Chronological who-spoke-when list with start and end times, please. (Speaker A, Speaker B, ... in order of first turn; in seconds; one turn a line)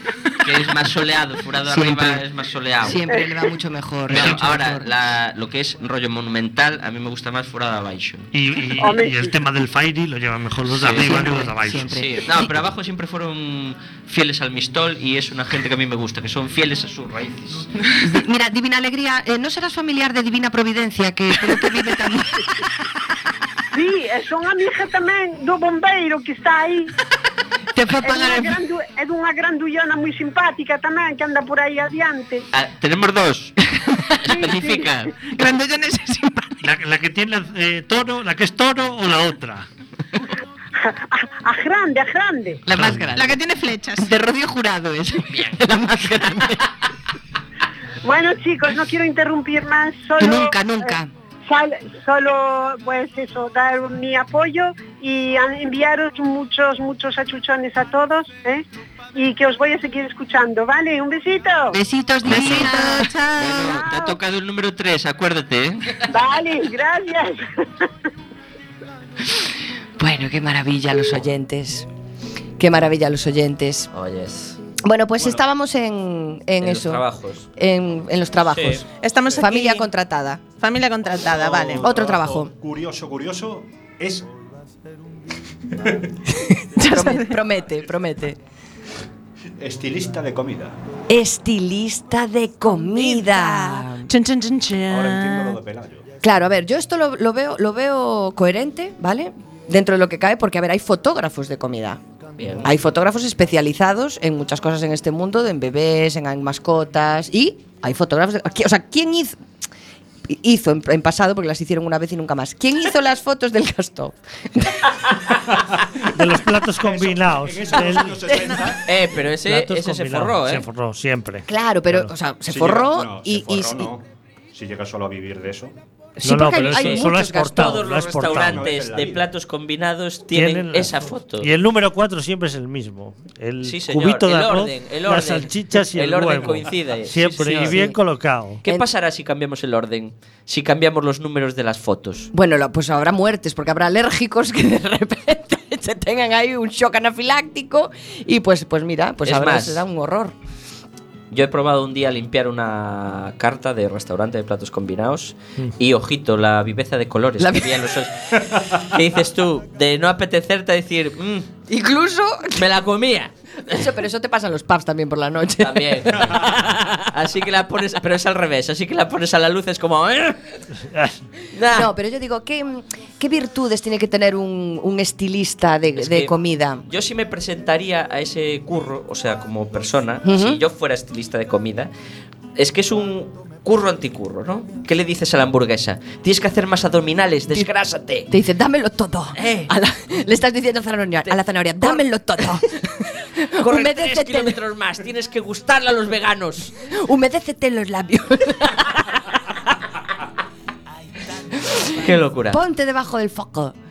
Speaker A: 0.4-3.0
Speaker B: 1.6-2.2
Speaker B: 2.8-4.9
Speaker A: 4.1-8.3
Speaker C: 8.3-11.9
Speaker D: 8.8-9.3
Speaker A: 10.7-17.7
Speaker B: 11.0-12.5
Speaker B: 18.0-22.5
Speaker D: 23.7-26.9
Speaker B: 27.8-28.6
Speaker D: 28.0-32.5
Speaker A: 32.5-33.6
Speaker A: 34.1-35.1
Speaker D: 34.3-34.9
Speaker E: 35.3-36.6
Speaker C: 36.6-39.6
Speaker D: 40.8-42.6
Speaker B: 42.7-43.4
Speaker C: 42.7-43.1
Speaker E: 43.1-44.1
Speaker B: 44.0-46.7
Speaker A: 45.3-45.6
Speaker D: 48.0-51.0
Speaker B: 50.2-51.1
Speaker D: 51.5-61.8
Speaker B: 61.7-63.8
Speaker A: 62.2-66.0
Speaker E: 62.6-63.3
Speaker D: 66.1-67.9
Speaker B: 70.0-71.9
Speaker B: 72.6-73.9
Speaker A: 73.9-74.6
Speaker B: 74.8-77.0
Speaker F: 75.2-75.4
Speaker A: 76.6-77.5
Speaker B: 77.6-80.4
Speaker A: 78.5-78.8
Speaker E: 79.0-81.8
Speaker F: 81.2-84.3
Speaker B: 81.8-82.5
Speaker B: 86.5-88.4
Speaker E: 86.8-87.4
Speaker F: 89.6-90.8
Speaker B: 91.1-94.1
Speaker E: 92.9-95.6
Speaker F: 94.9-96.1
Speaker B: 96.2-102.0
Speaker A: 102.4-102.7
Speaker B: 102.6-109.4
Speaker B: 110.3-114.9
Speaker C: 116.1-118.3
Speaker F: 116.4-119.0
Speaker B: 117.8-118.6
Speaker A: 118.8-120.7
Speaker C: 119.4-122.1
Speaker B: 121.5-123.9
Speaker F: 122.5-124.0
Speaker F: 124.5-125.7
Speaker B: 126.2-127.8
Speaker C: 126.2-128.8
Speaker A: 126.6-131.5
Speaker F: 128.2-129.3
Speaker C: 130.3-138.6
Speaker A: 133.6-137.8
Speaker B: 137.4-138.0
Speaker A: 138.6-142.3
Speaker B: 142.3-150.3
Speaker A: 149.2-149.8
Speaker A: 151.3-161.5
Speaker B: 157.4-157.8
Speaker B: 161.7-162.7
Speaker A: 162.6-163.8
Speaker B: 163.7-166.4
Speaker A: 165.6-170.6
Speaker C: 170.9-171.1
Speaker A: 171.5-171.9
Speaker B: 171.7-176.8
Speaker A: 175.9-176.3
Speaker A: 176.8-181.9
Speaker B: 180.2-180.6
Speaker A: 182.6-188.3
Speaker B: 188.3-194.6
Speaker A: 189.4-189.7
Speaker A: 191.2-192.0
Speaker A: 193.6-196.7
Speaker B: 196.9-199.3
Speaker B: 201.6-203.8
Speaker A: 201.9-202.6